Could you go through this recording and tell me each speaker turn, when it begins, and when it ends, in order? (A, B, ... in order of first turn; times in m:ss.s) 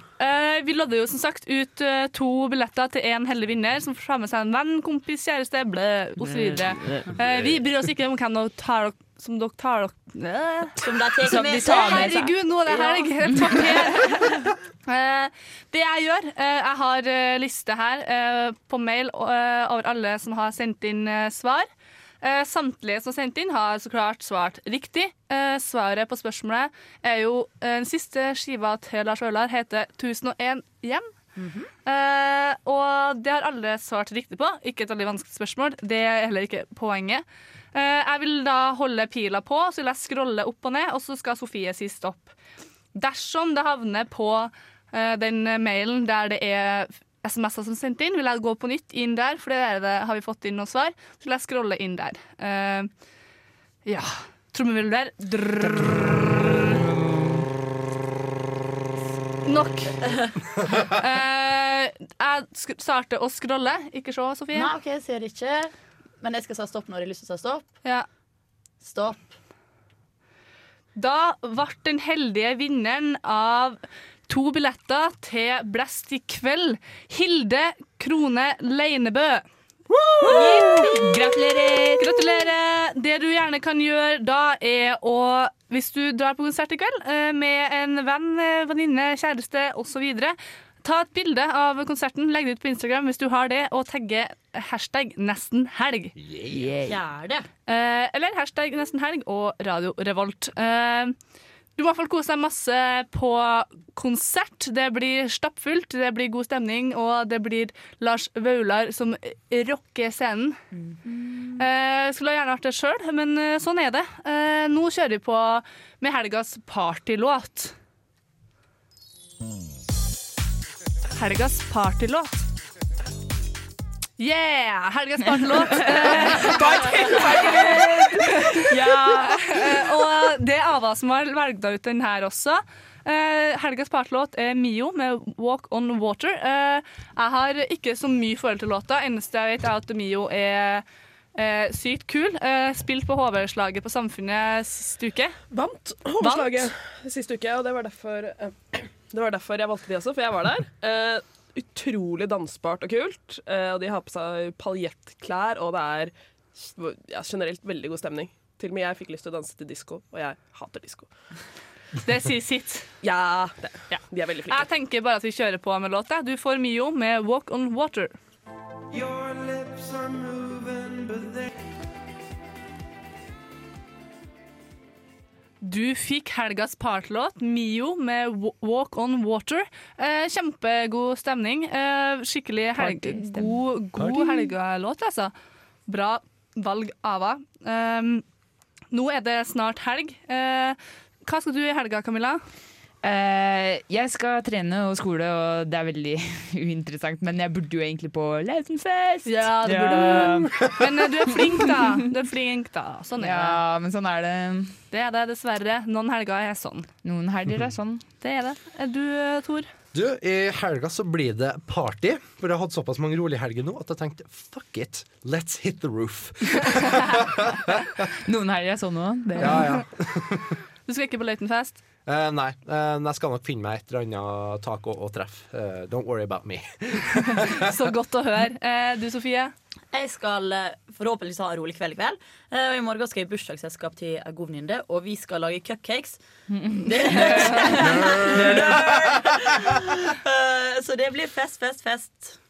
0:00.2-0:10.8 A
0:06.2-0:07.1 B
0:07.2-0:07.6 C
0:10.8-0:13.9 D
0:11.2-0:12.4 B
0:11.3-0:21.7 A
0:13.2-0:13.6 B
0:22.2-0:31.1 A
0:31.4-0:31.7 D
0:31.8-0:42.3 A
0:42.9-0:52.9 A
0:53.8-0:56.8 A
0:59.4-1:00.2 A
1:00.8-1:04.7 A
1:04.5-1:07.7 D
1:08.8-1:09.3 D
1:11.0-1:19.4 A
1:20.2-1:22.1 B
1:20.2-1:21.0 A
1:22.0-1:36.1 A
1:36.2-1:36.8 C
1:36.5-1:36.9 B
1:36.9-1:37.5 D
1:37.7-1:41.1 A
1:41.8-1:50.6 A
1:51.6-1:57.7 A
2:01.2-2:02.4 A
2:04.2-2:20.8 A
2:05.6-2:09.8 B
2:21.3-2:25.4 A
2:25.5-2:41.1 E
2:26.2-2:26.7 A
2:42.0-2:42.9 A
2:43.0-2:44.7 E
2:44.5-2:48.1 A
2:49.3-2:51.0 C
2:55.6-3:05.3 A
3:02.8-3:04.5 B
3:05.9-3:08.2 A
3:08.9-3:12.4 A
3:13.0-3:20.7 B
3:19.2-3:23.6 A
3:21.3-3:22.0 B
3:23.2-3:24.8 B
3:24.9-3:26.9 A
3:27.0-3:28.0 B
3:28.2-3:29.7 A
3:29.9-3:37.8 C
3:38.2-3:39.8 B
3:39.4-3:39.8 A
3:39.4-3:40.5 C
3:40.9-3:41.8 A
3:42.0-3:47.8 C
3:47.6-3:49.5 A
3:49.9-3:56.2 D
3:56.5-3:58.9 B
3:56.8-4:02.4 D
3:57.1-3:57.9 A
3:57.8-3:59.3 C